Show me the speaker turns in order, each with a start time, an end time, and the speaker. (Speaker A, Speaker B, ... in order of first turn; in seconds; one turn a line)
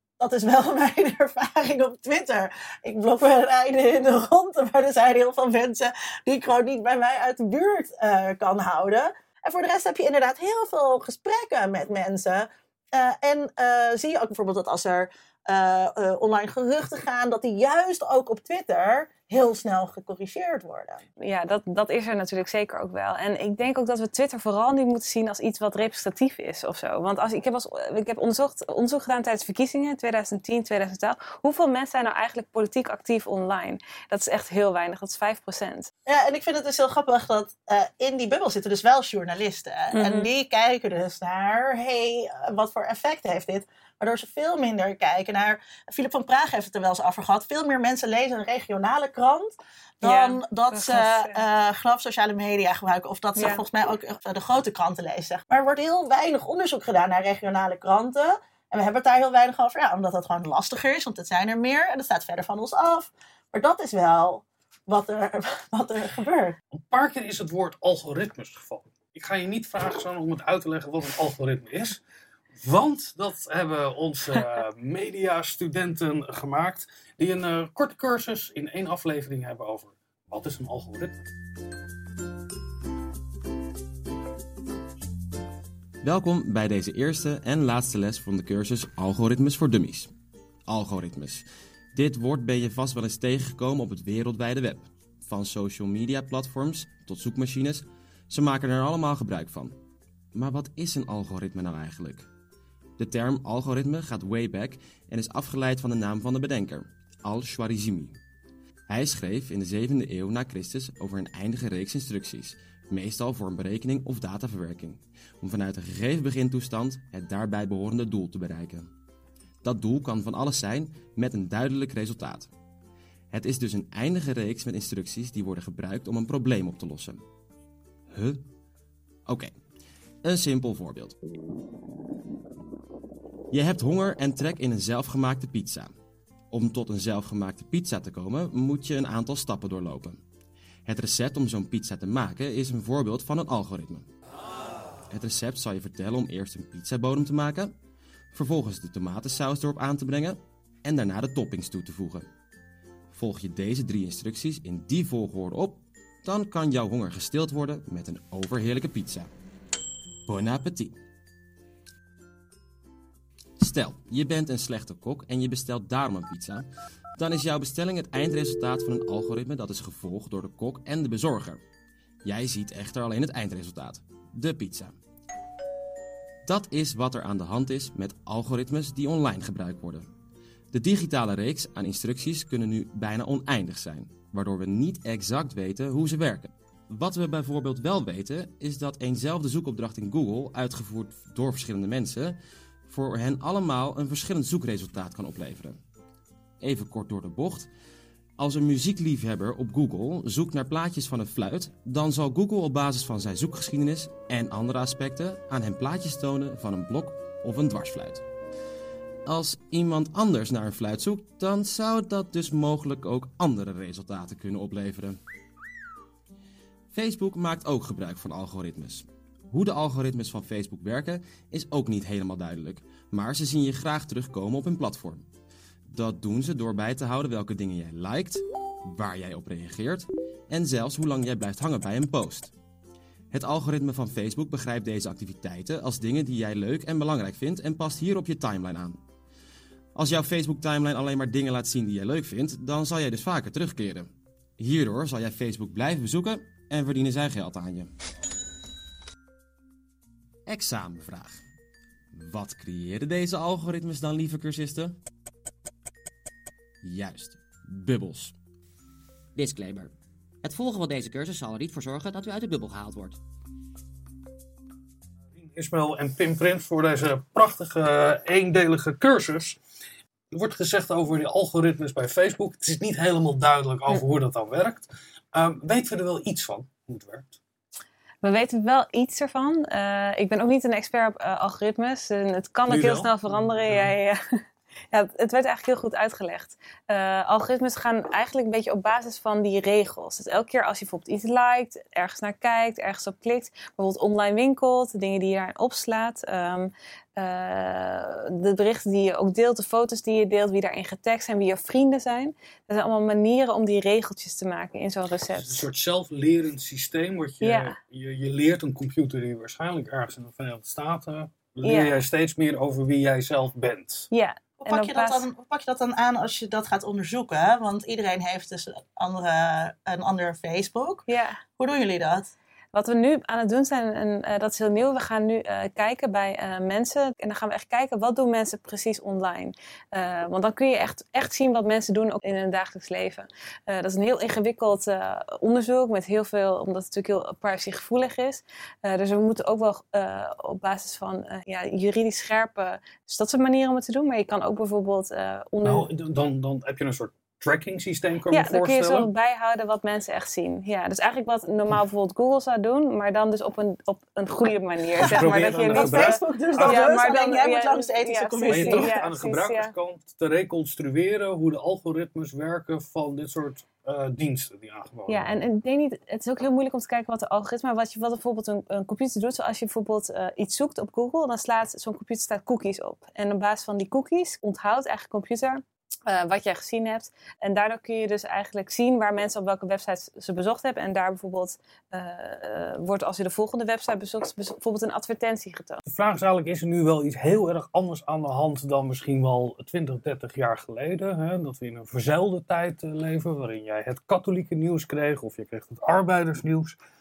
Speaker A: 0.2-21.0
Speaker B: 21.2-35.9
Speaker A: 36.0-66.6
Speaker B: 39.9-40.3
Speaker B: 50.0-51.4
Speaker B: 53.4-53.6
Speaker C: 66.7-72.0
Speaker C: 72.6-81.2
Speaker D: 86.0-90.1
Speaker D: 90.7-99.8
Speaker D: 100.3-102.2
Speaker D: 103.0-108.2
Speaker D: 108.9-118.9
Speaker D: 119.6-122.5
Speaker D: 123.3-127.2
Speaker D: 128.1-128.4
Speaker D: 129.2-129.5
Speaker D: 130.2-131.2
Speaker D: 133.5-135.9
Speaker D: 136.5-140.2
Speaker D: 140.8-144.1
Speaker D: 145.1-147.7
Speaker D: 148.3-152.3
Speaker D: 153.1-159.3
Speaker D: 160.3-161.0
Speaker D: 163.6-166.7
Speaker D: 167.2-171.6
Speaker D: 172.2-174.9
Speaker D: 176.4-180.1
Speaker D: 180.7-192.4
Speaker D: 192.9-195.8
Speaker D: 196.6-197.7
Speaker D: 198.4-208.2
Speaker D: 209.2-215.2
Speaker D: 216.9-225.2
Speaker D: 225.8-232.5
Speaker D: 233.3-239.0
Speaker D: 239.9-247.9
Speaker D: 250.4-251.4
Speaker D: 252.1-254.9
Speaker D: 256.8-258.3
Speaker E: 259.3-259.9
Speaker E: 260.4-263.2
Speaker C: 265.3-269.6
Speaker C: 270.3-277.4
Speaker B: 278.2-284.2
Speaker C: 282.7-283.9
Speaker B: 284.9-305.6
Speaker C: 305.3-314.1
Speaker B: 307.4-307.8
Speaker B: 311.6-311.9
Speaker B: 314.1-315.2
Speaker A: 314.6-321.0
Speaker B: 321.1-321.4
Speaker A: 321.6-322.3
Speaker B: 322.7-345.9
Speaker C: 345.6-349.1
Speaker B: 348.3-359.7
Speaker C: 355.0-357.0
Speaker A: 355.2-358.9
Speaker C: 358.5-365.4
Speaker B: 365.1-385.8
Speaker C: 385.9-396.8